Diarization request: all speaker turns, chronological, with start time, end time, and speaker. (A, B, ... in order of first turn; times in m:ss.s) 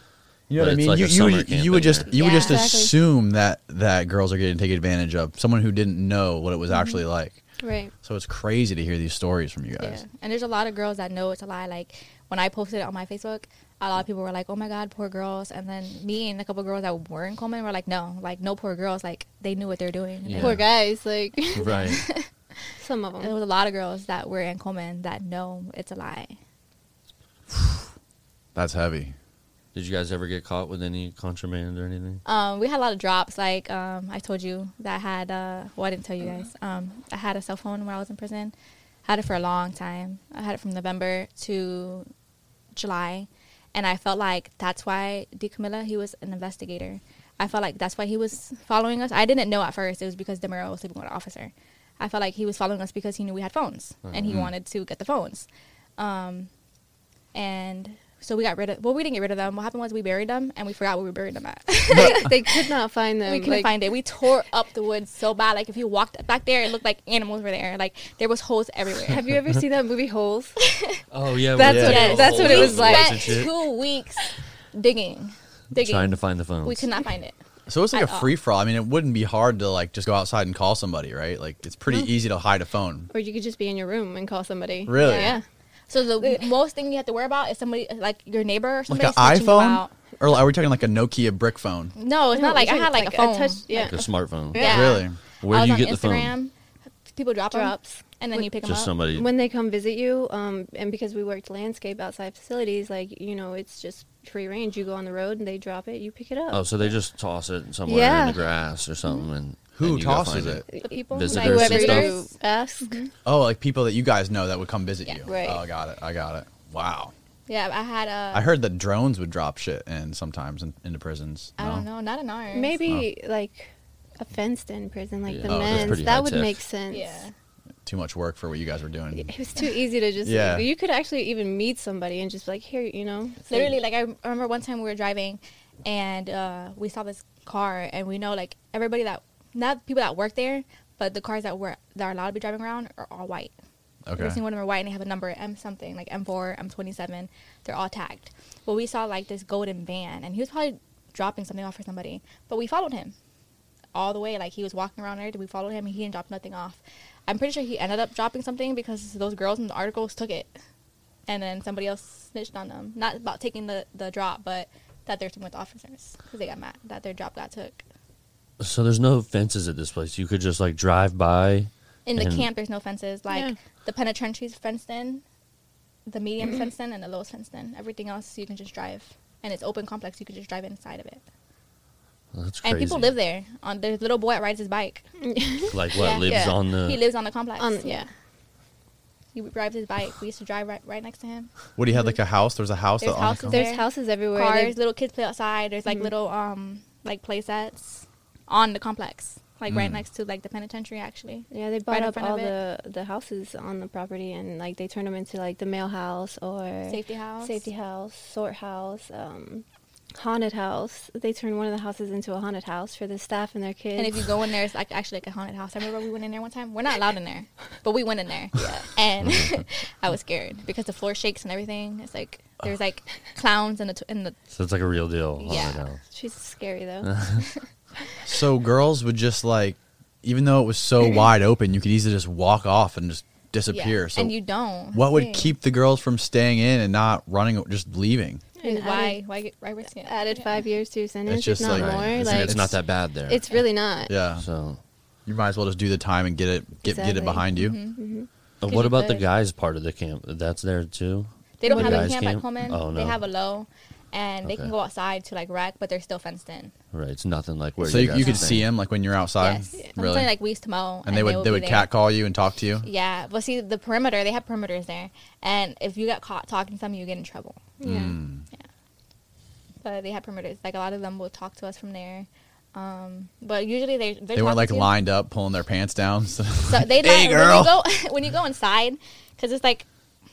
0:00.5-0:07.4 A
0:00.6-0:02.2 B
0:02.1-0:02.8 C
0:02.2-0:03.0 D
0:06.7-0:07.0 D
0:07.6-0:07.9 D
0:08.0-0:10.0 A
0:09.8-0:20.6 C
0:20.2-0:20.7 B
0:20.4-0:22.0 D
0:21.6-0:22.0 B
0:21.6-0:22.3 C
0:22.8-0:23.3 D
0:23.2-0:26.4 C
0:28.6-0:29.2 A
0:29.7-0:32.2 B
0:32.2-0:38.5 C
0:39.1-0:42.1 C
0:42.8-0:56.5 C
0:54.1-0:54.5 B
0:57.3-1:02.4 C
1:01.9-1:03.7 D
1:03.2-1:09.2 C
1:09.1-1:10.6 D
1:10.7-1:11.0 C
1:11.1-1:13.5 B
1:11.5-1:13.5 D
1:11.6-1:12.1 A
1:11.7-1:17.4 C
1:15.7-1:16.8 B
1:17.7-1:23.1 A
1:17.9-1:18.3 C
1:23.1-1:25.4 D
1:24.9-1:25.3 A
1:25.0-1:29.9 C
1:28.9-1:31.9 A
1:32.0-1:36.5 C
1:32.3-1:35.0 D
1:33.7-1:36.3 B
1:34.6-1:35.2 A
1:37.1-1:38.9 C
1:37.5-1:38.5 D
1:38.6-1:39.3 B
1:39.1-1:47.0 D
1:46.5-1:52.2 B
1:47.8-1:49.3 D
1:49.8-1:50.6 A
1:50.7-1:53.1 D
1:50.8-1:52.3 C
1:53.2-1:57.1 A
1:55.3-1:55.6 D
1:57.5-1:58.5 C
1:58.3-2:01.9 A
2:01.6-2:02.8 C
2:02.5-2:07.3 D
2:05.3-2:06.6 B
2:05.5-2:06.1 A
2:06.9-2:07.3 C
2:07.8-2:09.3 A
2:09.2-2:13.8 D
2:10.2-2:10.7 A
2:13.5-2:23.5 C
2:24.1-2:24.4 A
2:24.2-2:33.1 C
2:33.9-2:40.5 C
2:41.3-2:47.8 C
2:48.6-2:52.5 B
2:52.1-2:55.2 C
2:53.3-2:53.6 D
2:56.1-3:01.2 C
3:02.3-3:03.1 B
3:02.6-3:05.1 C
3:05.2-3:06.6 D
3:05.7-3:07.0 B
3:06.0-3:08.0 C
3:07.6-3:08.1 D
3:09.4-3:11.5 C
3:11.8-3:13.6 A
3:13.0-3:22.5 C
3:13.5-3:14.7 D
3:19.7-3:20.0 A
3:21.5-3:29.6 D
3:26.9-3:27.7 C
3:30.2-3:34.2 D
3:34.0-3:44.4 C
3:38.6-3:38.9 D
3:39.2-3:39.5 B
3:44.5-3:46.0 B
3:45.4-3:45.8 C
3:46.1-3:47.1 D
3:47.0-3:47.4 B
3:48.2-3:54.3 A
3:53.7-3:55.5 C
3:54.9-3:58.4 A
3:58.6-3:59.2 D
3:58.6-4:00.6 C
4:00.0-4:04.2 D
4:01.3-4:02.8 A
4:01.6-4:03.6 B
4:04.1-4:04.5 A
4:04.4-4:04.8 B
4:05.3-4:07.8 A
4:06.8-4:08.3 D
4:07.6-4:08.0 C
4:08.6-4:13.2 B
4:08.6-4:09.2 C
4:11.6-4:16.7 C
4:11.7-4:12.2 D
4:14.4-4:14.7 B
4:16.9-4:18.7 B
4:17.8-4:20.3 A
4:19.4-4:21.9 C
4:21.1-4:22.9 A
4:22.8-4:27.6 C
4:27.8-4:28.2 D
4:27.8-4:28.4 A
4:29.8-4:34.9 C
4:34.4-4:37.8 A
4:36.7-4:39.9 C